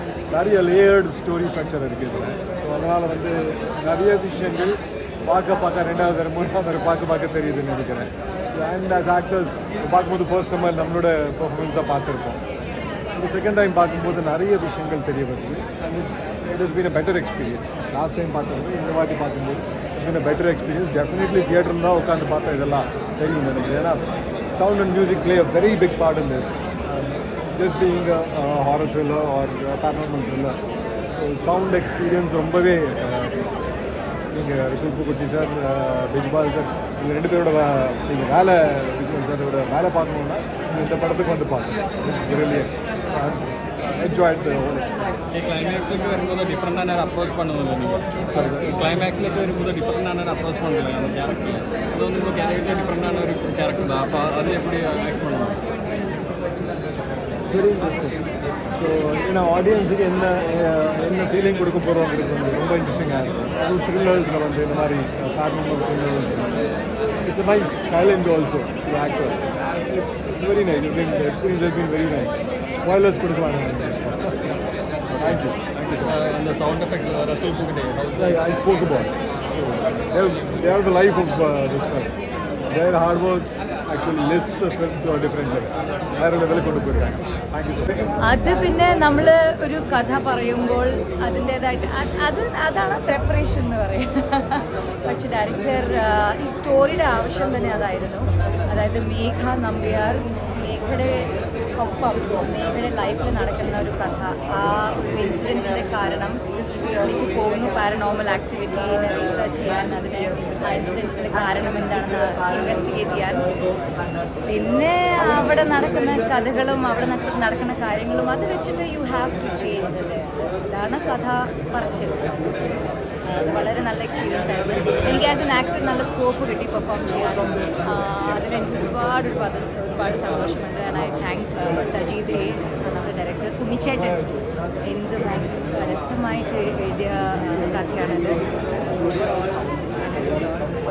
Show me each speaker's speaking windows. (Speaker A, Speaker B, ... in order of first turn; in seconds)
Speaker A: 0.3-12.4, 13.1-24.0, 24.5-30.6, 31.1-33.5, 34.3-45.0, 48.3-48.8, 57.5-66.6, 67.2-74.5, 75.2-76.1, 78.2-82.1, 82.7-88.2
Speaker B: 45.3-48.0, 48.6-55.6, 75.1-78.4
Speaker C: 88.2-113.5, 114.5-122.7, 123.2-134.3, 134.8-139.1, 140.0-140.6